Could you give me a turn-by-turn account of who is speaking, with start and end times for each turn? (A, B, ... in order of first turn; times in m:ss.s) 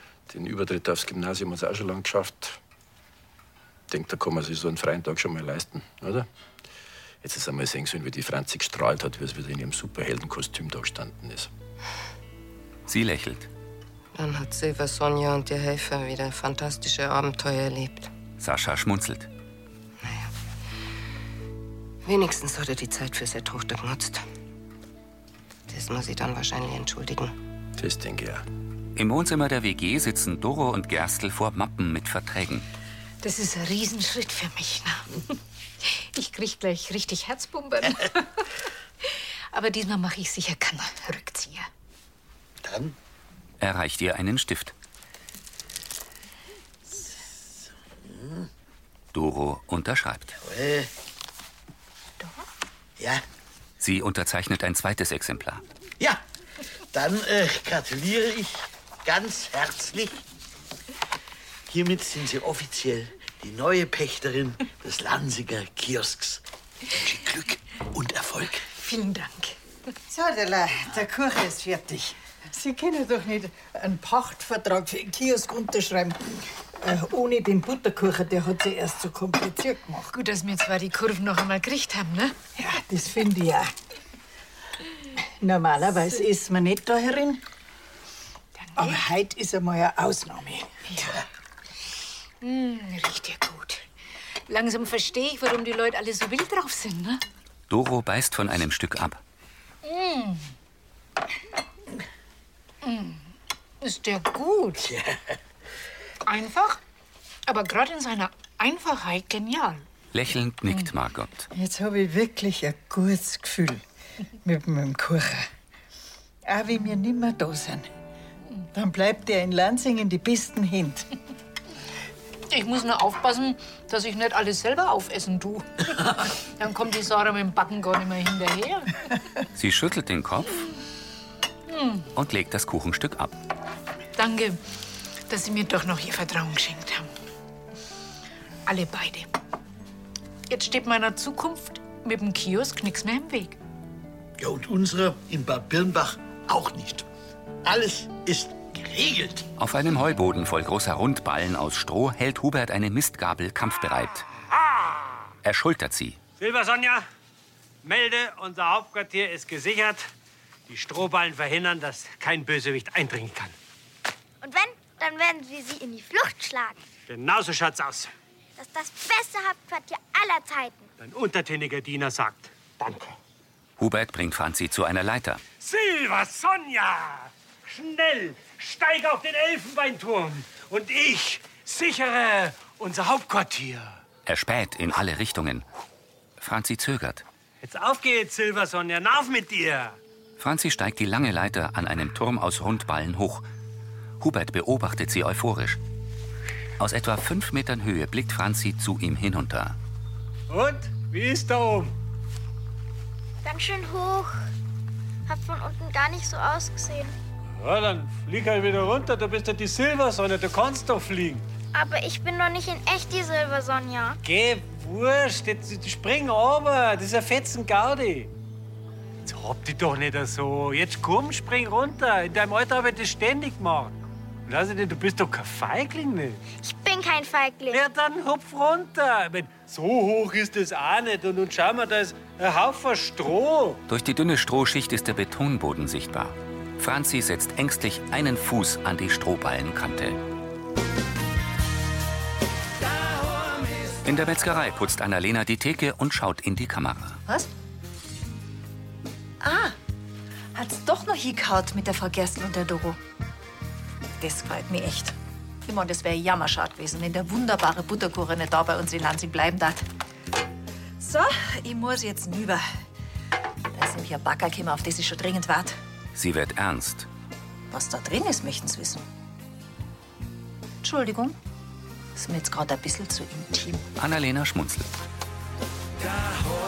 0:00.3-0:02.6 A
0:03.9-0:06.3 A
0:07.2-0:11.5 A
0:12.9-0:13.5 B
0:14.1-0:18.1 C
0:18.4-0:19.3 B
0:20.0-0:20.3 C
0:22.0-0:24.2 C
0:25.7-0:27.3 C
0:27.8-0:28.4 A
0:29.0-0:32.6 B
0:33.2-0:35.2 D
0:35.8-0:38.5 D
0:39.0-0:41.7 D
0:42.6-0:43.0 E
0:43.6-0:44.7 B
0:48.0-0:48.5 E
0:49.1-0:50.3 B
0:50.4-0:50.9 E
0:53.0-0:53.2 E
0:53.8-0:55.6 B
0:56.9-1:00.2 E
1:01.7-1:08.7 E
1:08.7-1:09.6 D
1:10.1-1:20.1 F
1:20.1-1:22.4 D
1:22.6-1:23.7 F
1:25.4-1:27.4 F
1:28.8-1:31.2 F
1:30.9-1:31.2 D
1:32.4-1:33.8 D
1:34.5-1:37.2 D
1:37.7-1:39.2 B
1:39.8-1:40.5 D
1:42.8-1:43.3 D
1:43.8-1:44.9 D
1:44.9-1:45.2 E
1:46.2-1:46.8 D
1:47.5-1:49.8 D
1:50.1-1:51.5 B
1:51.5-1:53.8 F
1:54.4-1:55.5 F
1:56.4-1:57.9 F
1:58.7-2:01.1 F
2:02.5-2:09.0 D
2:09.5-2:10.7 B
2:11.7-2:12.1 D
2:12.1-2:13.4 B
2:14.2-2:14.6 D
2:15.3-2:17.1 D
2:18.6-2:19.3 D
2:20.5-2:23.6 D
2:24.4-2:27.1 E
2:27.6-2:29.5 E
2:29.6-2:34.3 B
2:34.6-2:35.0 G
2:35.4-2:36.2 B
2:36.4-2:37.0 G
2:37.8-2:40.1 G
2:40.7-2:43.5 G
2:44.4-2:46.8 H
2:47.1-2:48.1 G
2:48.6-2:50.9 H
2:51.0-2:53.1 G
2:53.8-2:55.4 B
2:55.6-3:04.0 G
3:04.2-3:05.6 B
3:06.4-3:07.2 B
3:07.6-3:10.0 G
3:10.4-3:13.4 B
3:14.2-3:15.8 B
3:16.8-3:19.8 B
3:20.5-3:21.9 G
3:23.4-3:24.4 H
3:25.3-3:27.1 H
3:27.6-3:31.4 G
3:31.7-3:34.2 H
3:34.2-3:38.3 G
3:39.2-3:43.9 G
3:44.4-3:46.4 G
3:46.5-3:47.8 H
3:47.7-3:53.8 G
3:53.9-4:00.2 B
4:04.0-4:07.2 B
4:09.4-4:09.7 I
4:10.5-4:13.0 I
4:14.2-4:15.1 I
4:15.7-4:19.8 I
4:15.9-4:16.2 D
4:21.0-4:22.6 I
4:23.7-4:25.8 I
4:26.1-4:27.1 B
4:27.7-4:29.0 I
4:30.8-4:31.3 I
4:32.1-4:33.8 I
4:34.0-4:35.0 B